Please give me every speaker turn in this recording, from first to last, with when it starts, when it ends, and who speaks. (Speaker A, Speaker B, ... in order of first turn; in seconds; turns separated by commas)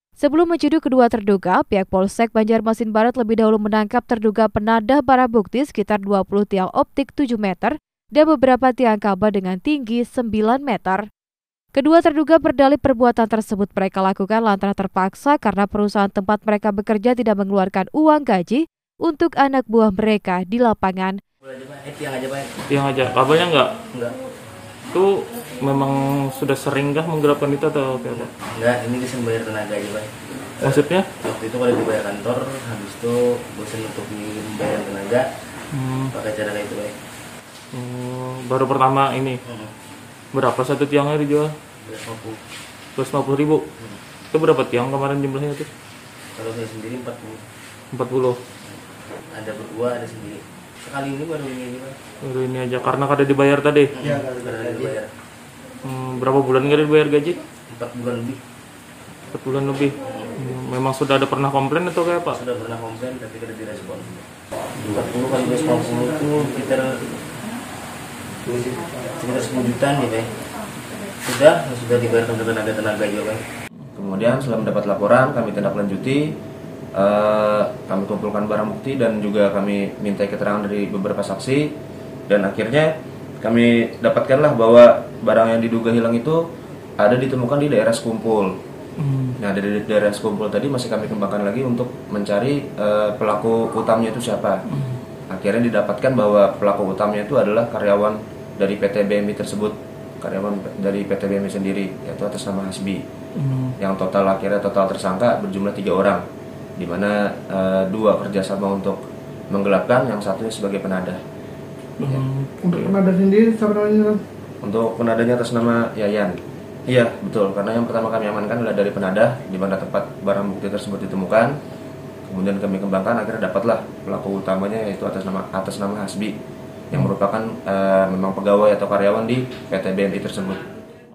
Speaker A: 0.2-11.1, Speaker A: 11.7-21.2, Speaker B: 21.4-22.6, Speaker C: 22.7-23.8, Speaker B: 23.8-24.2, Speaker C: 24.9-28.3, Speaker B: 28.1-35.4, Speaker C: 30.6-31.1, Speaker C: 35.7-36.1, Speaker B: 36.1-36.9, Speaker C: 37.7-39.4, Speaker B: 39.5-39.7, Speaker C: 40.3-41.5, Speaker B: 41.8-42.4, Speaker C: 43.0-43.6, Speaker C: 44.3-45.7, Speaker B: 46.4-47.4, Speaker C: 47.9-48.4, Speaker B: 48.6-52.0, Speaker C: 52.2-53.9, Speaker B: 53.9-55.1, Speaker C: 55.8-57.4, Speaker B: 57.7-58.4, Speaker C: 59.3-62.4, Speaker B: 60.0-60.3, Speaker B: 62.3-64.2, Speaker B: 64.8-67.2, Speaker D: 68.5-69.1, Speaker B: 69.1-70.3, Speaker B: 71.1-73.4, Speaker E: 73.9-76.3, Speaker E: 76.9-81.7, Speaker E: 82.3-86.4, Speaker E: 87.0-88.6, Speaker C: 89.0-89.4, Speaker E: 89.4-94.6, Speaker C: 94.7-95.0, Speaker E: 95.3-103.0, Speaker C: 103.3-103.7, Speaker E: 103.8-106.2, Speaker E: 106.8-111.2, Speaker C: 112.0-112.5, Speaker D: 112.6-114.2, Speaker E: 114.6-121.5, Speaker E: 122.2-126.3, Speaker E: 126.9-130.7